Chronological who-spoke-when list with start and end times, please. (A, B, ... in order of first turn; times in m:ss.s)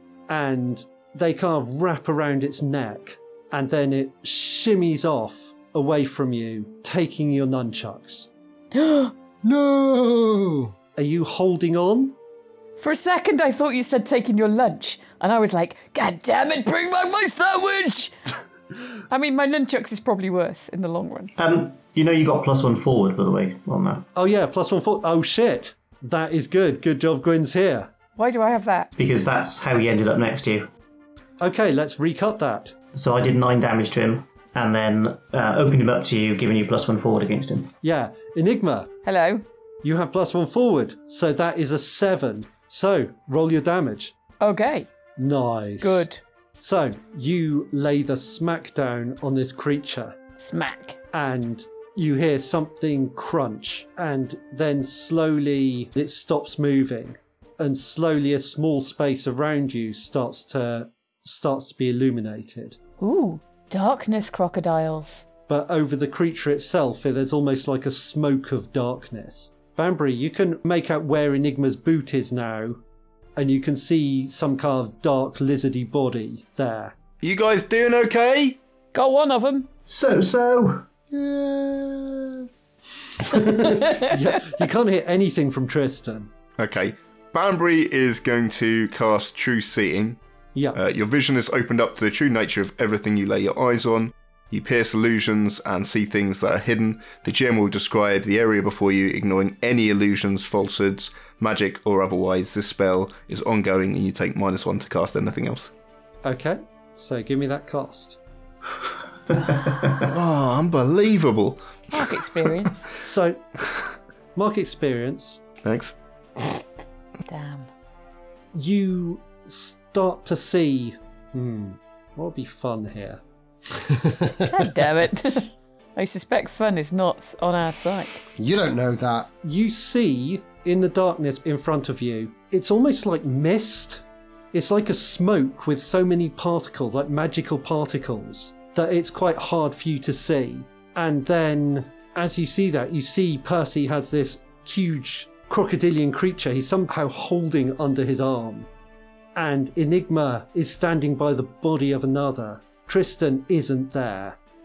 0:00.3-0:08.3 A
0:08.7-0:09.1 B
0:09.4-0:10.7 C
0:11.0-0:12.2 A
0:12.8-0:18.1 B
0:19.1-0:21.3 B
0:21.4-0:24.1 D
0:24.1-0:27.9 A
0:28.2-0:28.9 B
0:29.0-0:30.7 D
0:31.4-0:32.7 A
0:32.9-0:37.7 D
0:37.8-0:38.9 A
0:39.0-0:39.4 B
0:39.8-0:44.1 A
0:44.4-0:44.9 B
0:45.2-0:46.0 A
0:45.8-0:46.2 B
0:46.6-0:50.2 A
0:50.4-0:51.0 B
0:51.1-1:02.8 A
1:03.0-1:05.2 B
1:05.5-1:12.8 A
1:13.4-1:16.9 A
1:17.2-1:18.6 E
1:18.9-1:19.7 B
1:19.9-1:20.8 D
1:21.1-1:22.7 C
1:23.2-1:26.3 A
1:23.8-1:24.1 B
1:26.6-1:30.2 E
1:30.7-1:45.7 E
1:46.2-1:48.2 A
1:49.6-1:50.0 D
1:50.0-1:52.3 E
1:51.9-1:52.8 B
1:53.0-1:53.4 A
1:54.3-1:55.4 A
1:55.6-1:56.0 E
1:57.3-1:57.7 B
1:58.5-2:03.2 A
2:04.0-2:04.4 C
2:04.5-2:08.2 B
2:08.4-2:09.3 C
2:09.4-2:28.7 A
2:29.3-2:34.4 A